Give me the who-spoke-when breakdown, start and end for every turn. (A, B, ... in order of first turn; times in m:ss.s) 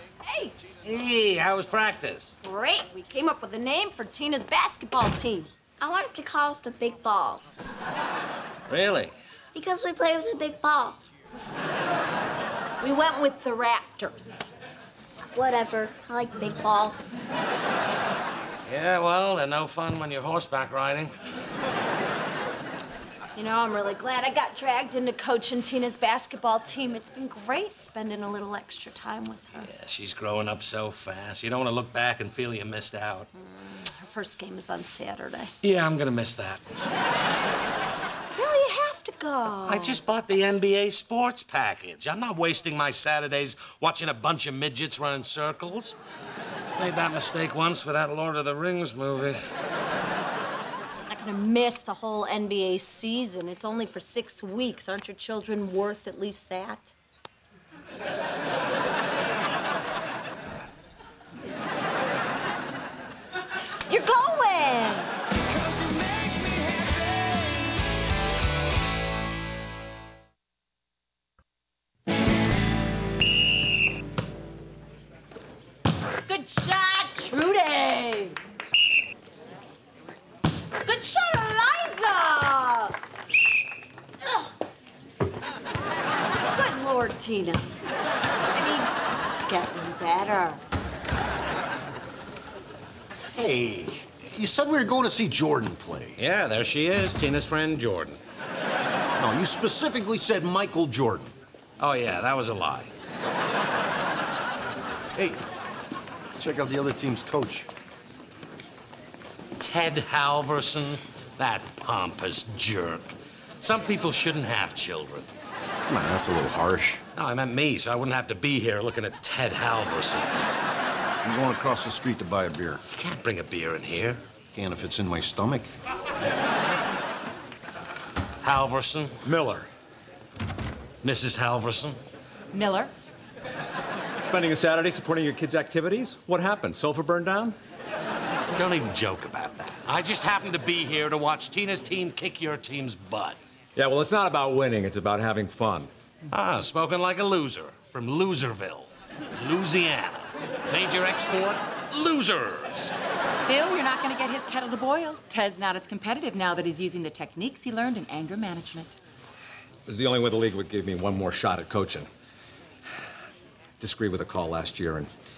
0:00.2-0:00.5 A
0:00.8-0:02.4 B
0:02.4-0:05.5 A
0:05.8-0:07.5 C
0:08.7-0:09.1 B
0:09.5-0:11.0 C
0:12.8-0:14.5 A
0:15.3-0:17.1 C
0:18.7-0:21.1 B
0:23.3-0:29.7 A
0:29.5-0:33.3 B
0:33.4-0:35.5 A
0:35.6-0:36.6 B
0:38.4-0:40.0 A
0:39.6-0:46.0 B
0:46.8-0:49.4 B
0:51.1-0:56.9 A
1:03.9-1:05.1 A
1:16.2-1:18.4 A
1:20.8-1:22.9 A
1:26.5-1:27.7 A
1:28.5-1:28.9 A
1:29.4-1:30.6 A
1:33.3-1:36.2 D
1:36.2-1:38.2 B
1:39.2-1:41.3 D
1:41.8-1:42.9 B
1:46.4-1:47.7 D
1:49.6-1:55.3 B
1:55.9-1:57.0 D
1:57.2-2:00.3 B
2:01.2-2:02.8 D
2:02.9-2:04.2 B
2:04.5-2:05.7 D
2:08.4-2:09.1 B
2:09.2-2:09.7 E
2:11.0-2:12.0 B
2:12.5-2:12.9 A
2:14.2-2:17.6 E
2:18.5-2:23.4 B
2:23.8-2:25.9 E
2:26.3-2:32.9 B
2:33.5-2:38.0 A
2:33.6-2:38.9 F
2:39.9-2:42.1 E
2:43.8-2:45.1 E